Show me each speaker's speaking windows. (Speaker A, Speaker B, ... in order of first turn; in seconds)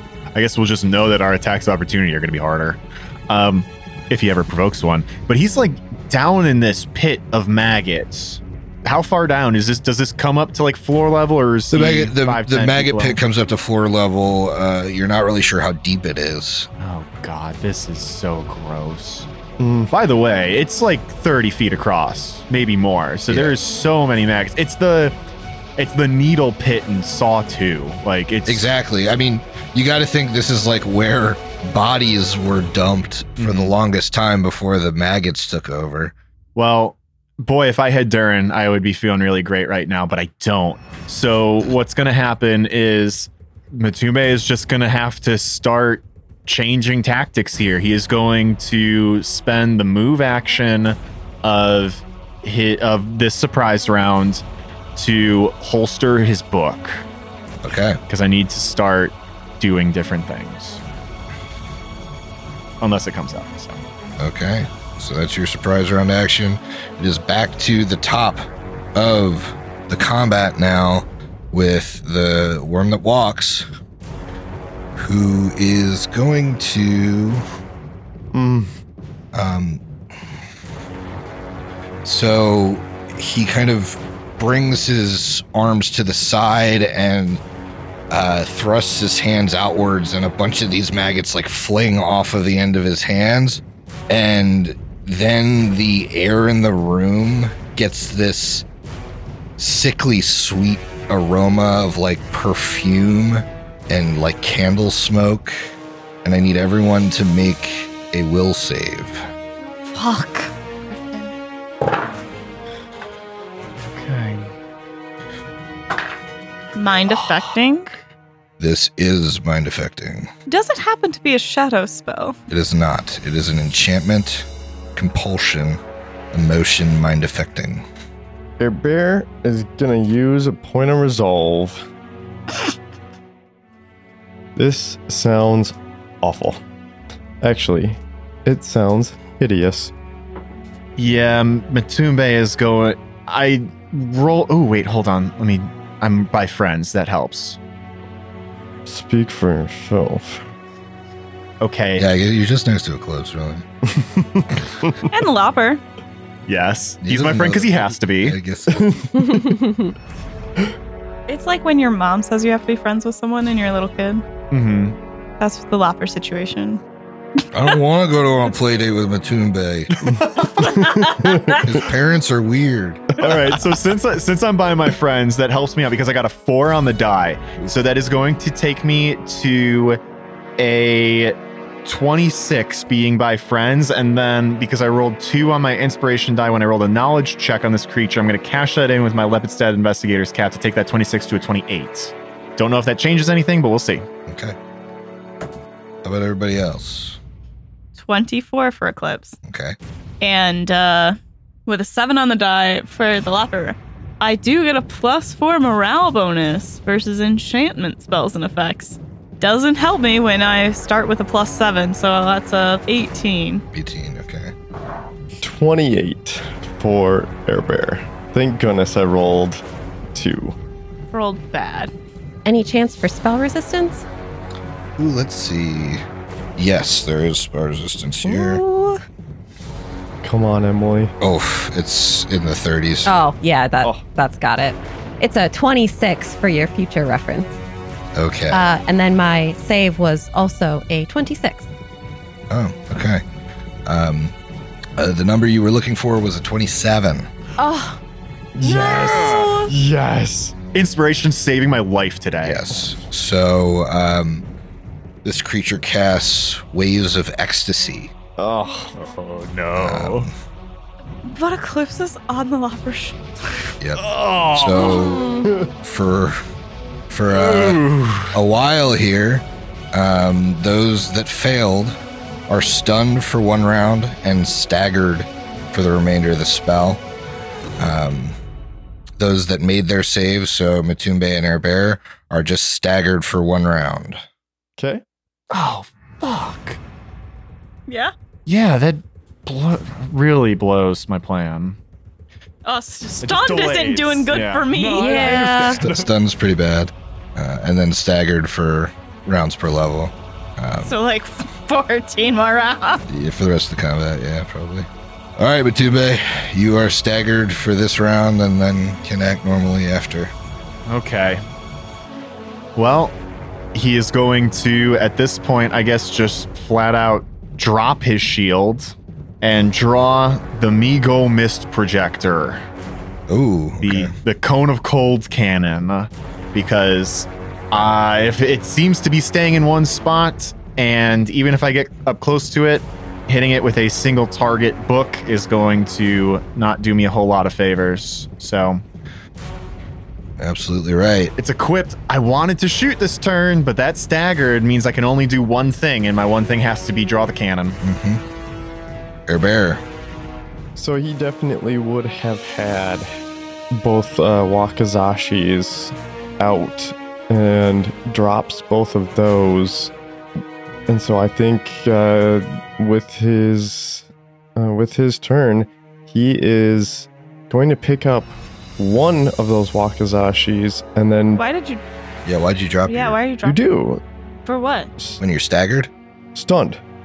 Speaker A: 0.3-13.2, 16.8-19.3, 19.9-25.2, 25.8-28.7, 33.4-33.8, 36.6-54.4, 55.0-57.1, 58.1-60.8, 62.8-63.8, 113.9-114.5, 117.1-117.5, 141.0-147.6, 151.6-152.1, 156.5-158.4, 164.5-165.0, 170.0-170.6, 173.2-180.0, 180.6-194.1, 249.0-249.6, 250.7-252.7, 259.0-260.3, 264.0-265.1, 267.3-268.4, 285.5-286.8, 288.5-291.8, 293.2-296.1, 310.9-311.4, 312.8-313.2, 313.7-322.6, 323.8-338.8, 341.4-347.8
Speaker B: 11.7-16.7, 23.3-23.6, 28.5-36.1, 57.6-58.0, 64.2-73.7, 75.0-77.4, 79.3-79.8, 82.0-87.4, 88.1-98.7, 99.6-105.7, 106.2-109.3, 118.6-120.3, 122.5-125.8, 126.3-127.8, 152.0-153.7, 157.0-159.1, 167.5-170.0, 171.6-173.1, 194.3-194.6, 196.0-197.2, 199.4-199.8, 213.7-214.5, 225.0-226.0, 226.6-228.6, 231.2-233.1, 238.2-238.7, 242.5-243.2, 243.9-244.3, 245.0-247.3, 252.4-254.5, 255.2-258.1, 259.8-260.3, 263.8-265.3, 265.8-266.4, 267.1-272.0, 272.5-277.0, 277.8-278.4, 279.2-284.2, 295.6-300.9, 303.1-310.3, 323.3-324.1, 340.4-341.3, 347.8-348.2, 349.3-349.8, 372.2-373.2, 375.2-375.9
Speaker C: 19.6-19.9, 78.3-78.7, 128.6-131.8, 134.6-136.6, 137.4-139.9, 148.9-150.4, 153.9-154.9, 158.7-159.6, 170.7-171.6, 215.4-220.6, 230.2-231.1, 248.6-250.6, 258.4-259.0, 265.4-265.7, 284.8-285.0, 350.8-353.1, 353.7-359.9, 360.9-371.4, 373.4-374.0, 376.4-376.8
Speaker D: 109.9-111.3, 116.8-117.9, 120.5-122.4, 155.1-155.8, 161.3-164.2, 165.4-166.8, 170.6-171.5, 198.0-199.4, 200.2-213.6, 221.1-221.9, 261.2-263.7, 287.9-288.1, 292.6-295.5, 300.8-303.0, 371.4-371.8, 372.9-373.6, 374.5-374.9
Speaker E: 159.2-159.6, 222.4-224.1, 228.2-229.0, 233.1-237.6, 238.5-241.7, 247.6-248.0, 248.6-249.7, 264.8-265.5, 295.0-295.8